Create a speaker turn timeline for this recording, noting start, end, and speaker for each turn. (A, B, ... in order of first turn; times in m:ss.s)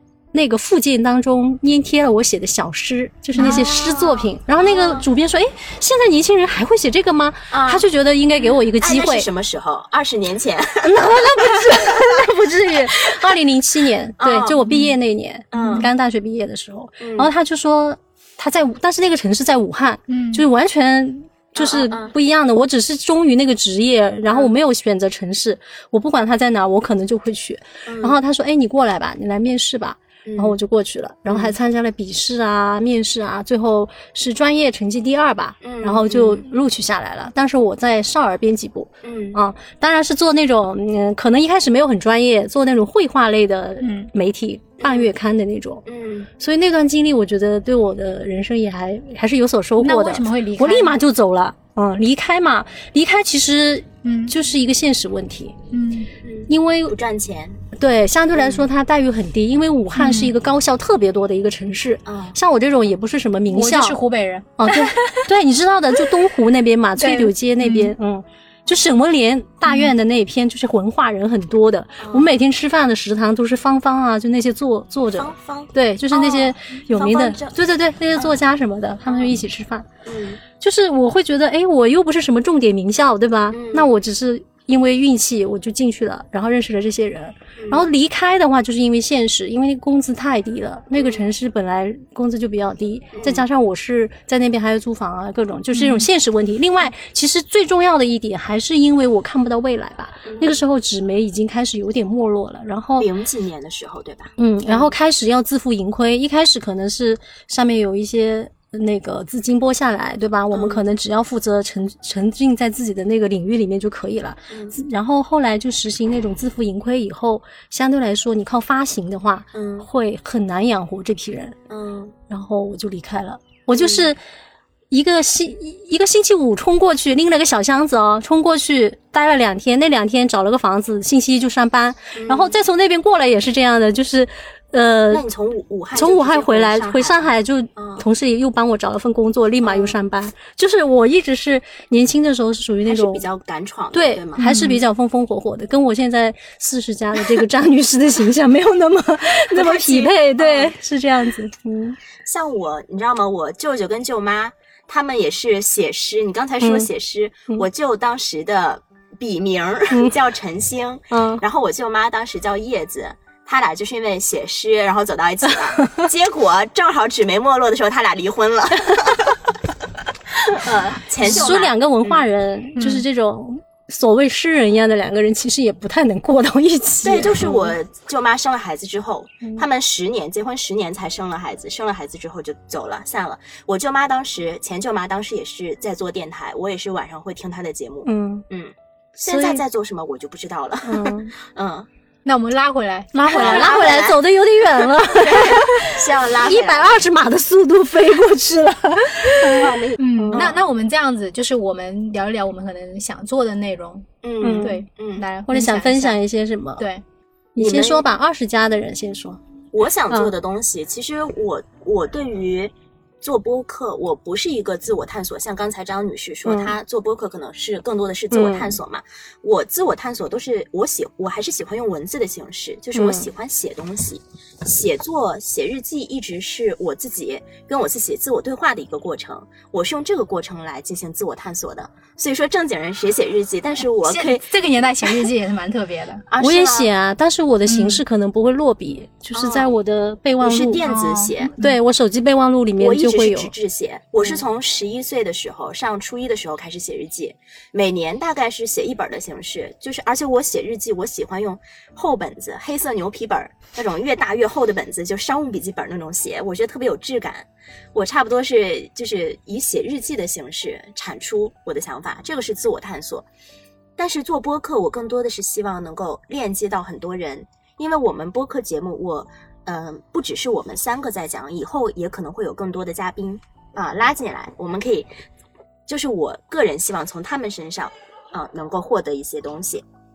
0:00.3-0:09.3 A
0:03.3-0:03.7 B
0:03.4-0:05.1 C
0:07.5-0:12.2 C
0:10.8-0:45.8 A
0:14.2-0:14.9 C
0:15.5-0:15.9 C
0:15.6-0:15.9 B
0:17.0-0:17.3 C
0:20.1-0:20.4 B
0:21.6-0:22.1 C
0:27.8-0:28.2 C
0:30.2-0:30.6 C
0:31.2-0:31.6 C
0:35.6-0:36.4 C
0:39.0-0:39.4 C
0:43.8-0:44.1 B
0:44.8-0:45.1 C
0:45.8-0:46.3 C
0:46.4-0:55.6 A
0:49.8-0:51.0 B
0:54.0-0:54.3 B
0:55.7-0:56.1 B
0:56.2-0:57.6 C
0:56.5-0:57.0 A
0:57.8-1:04.0 A
0:58.3-0:58.7 C
1:00.0-1:00.3 B
1:02.0-1:02.4 C
1:03.5-1:04.5 B
1:04.6-1:19.9 A
1:07.0-1:07.9 B
1:12.0-1:12.3 C
1:15.2-1:17.6 C
1:19.0-1:19.4 C
1:20.0-1:20.4 C
1:20.6-1:43.1 A
1:23.5-1:23.9 C
1:27.6-1:27.8 C
1:31.0-1:31.3 C
1:33.2-1:33.4 C
1:35.7-1:36.0 B
1:40.2-1:40.6 C
1:43.0-1:44.9 C
1:44.4-2:01.6 A
1:50.5-1:50.8 C
1:54.5-1:54.7 C
1:59.5-1:59.9 C
2:01.7-2:02.1 C
2:02.3-2:04.2 A
2:03.7-2:04.1 C
2:04.9-2:15.2 A
2:12.1-2:12.6 C
2:15.1-2:18.0 C
2:15.9-2:23.2 A
2:19.6-2:20.0 C
2:22.8-2:24.5 C
2:23.9-2:32.0 A
2:24.4-2:24.8 B
2:29.5-2:30.7 C
2:32.2-2:49.4 C
2:36.6-2:36.9 A
2:41.1-2:41.4 A
2:45.8-2:46.1 A
2:50.4-2:52.2 C
2:51.2-2:57.7 A
2:52.8-2:53.0 B
2:57.0-3:11.9 C
3:08.0-3:08.4 A
3:09.2-3:09.6 A
3:10.8-3:11.3 A
3:12.2-3:13.9 B
3:13.2-3:20.5 A
3:13.3-3:14.2 C
3:14.8-3:17.0 C
3:19.4-3:20.6 C
3:20.0-3:26.2 B
3:24.2-3:25.2 C
3:24.4-3:24.8 A
3:25.5-3:26.9 A
3:26.8-3:27.0 B
3:27.6-3:29.4 A
3:27.6-3:28.0 C
3:29.7-3:54.4 C
3:36.4-3:36.7 A
3:38.3-3:38.8 A
3:42.9-3:43.3 A
3:54.0-3:56.2 B
3:56.3-3:56.9 C
3:56.4-4:00.8 A
3:57.7-3:58.0 B
3:59.3-3:59.7 C
4:00.4-4:01.5 C
4:00.8-4:01.8 B
4:01.6-4:03.5 A
4:02.8-4:23.2 C
4:24.0-4:35.1 C
4:35.9-4:39.8 C